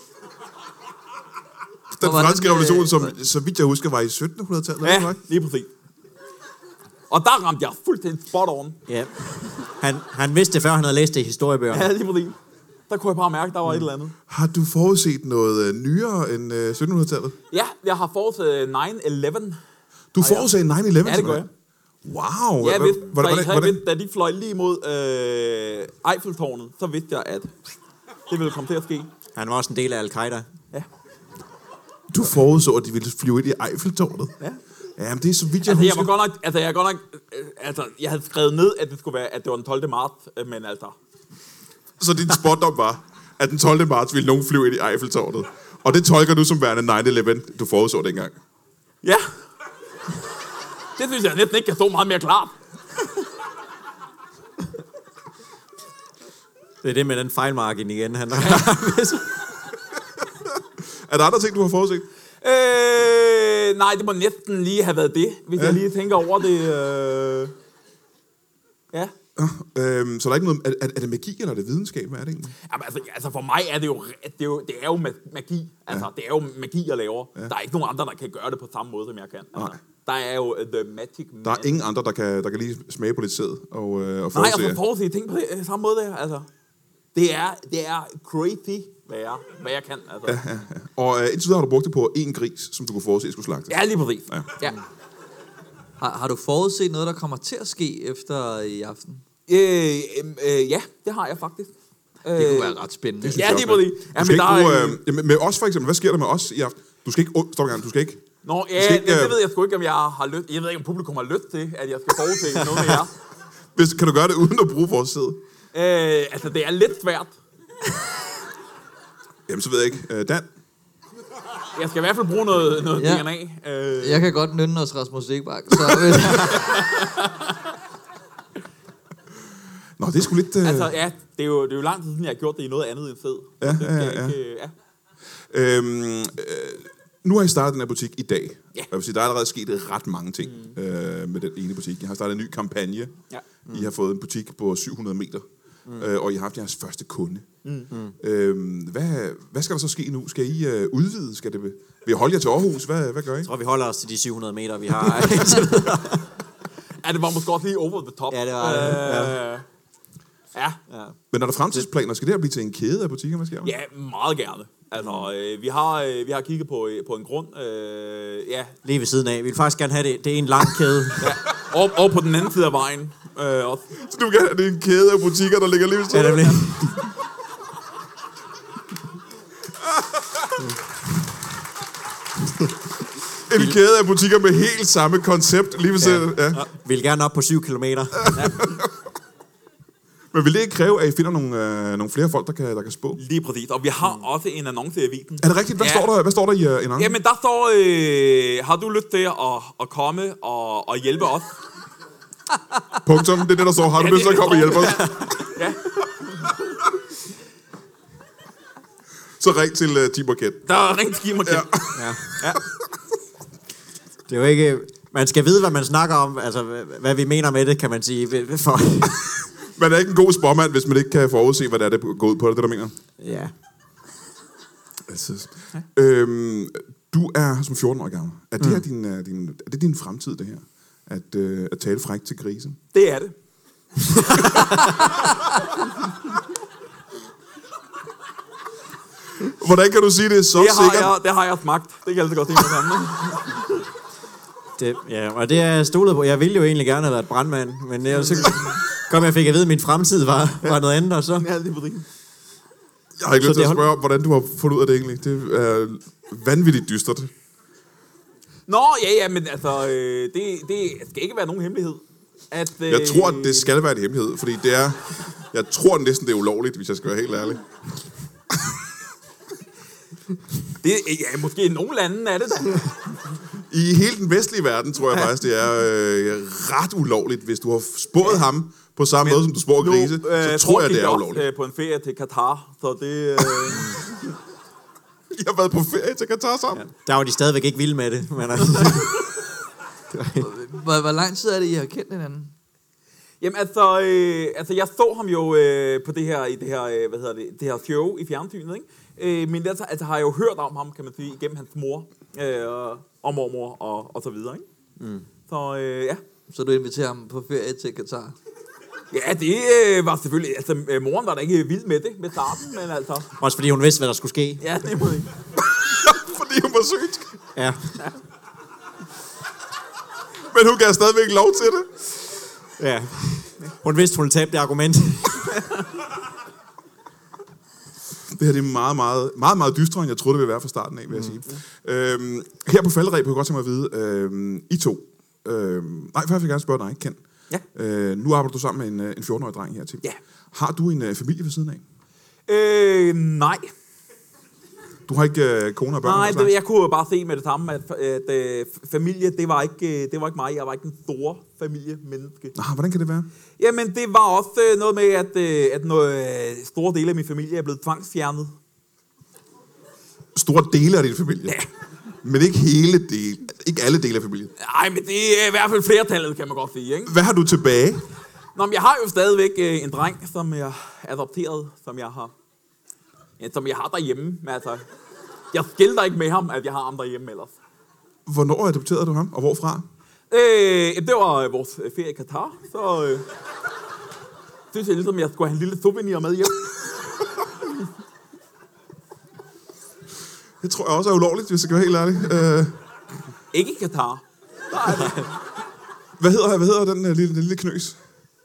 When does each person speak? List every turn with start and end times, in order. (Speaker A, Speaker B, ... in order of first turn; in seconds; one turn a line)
Speaker A: 1.9-5.2
Speaker B: 2.0-3.1
Speaker C: 4.8-5.7
Speaker C: 7.1-8.8
Speaker D: 8.9-11.9
Speaker C: 11.7-12.4
Speaker C: 12.9-14.2
Speaker A: 14.3-17.4
Speaker C: 17.5-19.6
Speaker A: 20.1-21.5
Speaker C: 20.2-20.5
Speaker C: 21.0-21.5
Speaker A: 22.0-23.8
Speaker C: 22.6-27.5
Speaker C: 28.3-29.1
Speaker D: 29.4-30.5
Speaker A: 32.1-34.3
Speaker A: 35.0-36.1
Speaker C: 35.6-41.0
Speaker A: 42.0-48.4
Speaker C: 49.0-49.3
Speaker C: 51.0-52.5
Speaker D: 56.8-59.4
Speaker A: 60.8-62.1
Speaker C: 62.4-67.5
Speaker A: 69.4-72.5
Speaker C: 72.7-81.7
Speaker A: 81.4-84.8
Speaker C: 84.3-86.5
Speaker C: 87.2-90.4
Speaker A: 90.3-93.8
Speaker C: 93.7-94.8
Speaker B: 96.0-99.2
Speaker C: 99.5-101.7
Speaker C: 102.2-105.0
Speaker B: 102.4-103.6
Speaker A: 103.2-108.2
Speaker C: 108.4-113.1
Speaker A: 108.8-109.4
Speaker A: 113.8-115.4
Speaker C: 115.7-117.3
Speaker A: 119.5-120.5
Speaker C: 121.8-124.3
Speaker B: 123.0-123.3
Speaker B: 124.0-126.7
Speaker C: 126.2-127.5
Speaker A: 130.0-130.9
Speaker C: 130.6-134.7
Speaker A: 133.6-134.4
Speaker A: 135.5-143.2
Speaker C: 140.4-140.8
Speaker A: 143.7-145.4
Speaker A: 146.0-147.5
Speaker C: 147.7-147.9
Speaker A: 148.2-153.5
Speaker D: 153.4-156.3
Speaker C: 157.0-159.7
Speaker D: 158.3-159.4
Speaker C: 160.5-160.8
Speaker D: 160.9-161.2
Speaker A: 161.3-163.7
Speaker C: 163.6-168.7
Speaker D: 168.8-171.3
Speaker C: 171.2-173.9
Speaker A: 173.9-176.6
Speaker D: 176.1-177.0
Speaker A: 180.0-180.3
Speaker A: 183.5-186.7
Speaker D: 186.0-188.6
Speaker A: 188.2-188.9
Speaker A: 190.3-193.2
Speaker C: 193.2-196.1
Speaker A: 195.4-197.2
Speaker C: 197.0-201.6
Speaker A: 203.0-205.2
Speaker C: 203.9-206.0
Speaker D: 204.8-205.5
Speaker A: 209.4-210.6
Speaker C: 210.7-212.6
Speaker A: 211.4-212.6
Speaker D: 211.9-212.5
Speaker D: 214.3-219.4
Speaker A: 219.8-222.9
Speaker D: 223.2-223.5
Speaker A: 225.1-232.8
Speaker C: 232.9-233.3
Speaker C: 234.3-235.3
Speaker A: 239.4-241.1
Speaker C: 240.5-243.7
Speaker D: 244.8-251.5
Speaker C: 248.1-248.7
Speaker C: 251.4-252.1
Speaker A: 253.2-257.3
Speaker D: 253.4-253.8
Speaker C: 258.7-263.7
Speaker A: 262.9-267.6
Speaker C: 270.8-273.0
Speaker A: 273.7-281.4
Speaker C: 279.2-284.0
Speaker D: 283.7-284.0
Speaker A: 285.3-286.8
Speaker D: 286.7-289.3
Speaker D: 290.1-290.5
Speaker B: 290.4-292.5
Speaker C: 293.4-304.6
Speaker D: 305.0-305.3
Speaker C: 305.5-306.2
Speaker B: 306.5-308.4
Speaker C: 309.1-313.3
Speaker D: 313.4-314.6
Speaker C: 314.6-315.3
Speaker A: 315.6-317.4
Speaker D: 317.6-318.0
Speaker A: 320.5-322.1
Speaker D: 322.8-325.8
Speaker A: 328.3-337.2
Speaker D: 331.1-331.4
Speaker A: 337.7-341.8
Speaker C: 342.5-343.7
Speaker A: 345.1-346.6
Speaker C: 346.0-352.6
Speaker A: 352.6-353.3
Speaker C: 353.6-358.5
Speaker A: 360.4-361.6
Speaker A: 362.2-364.5
Speaker C: 364.6-367.1
Speaker A: 367.1-368.1
Speaker C: 368.6-372.3
Speaker C: 373.4-374.9
Speaker C: 375.5-377.5
Speaker A: 378.3-379.9
Speaker C: 380.3-383.3
Speaker C: 384.7-386.9
Speaker A: 390.6-392.8
Speaker C: 393.5-395.3
Speaker D: 394.9-395.3
Speaker A: 396.2-398.0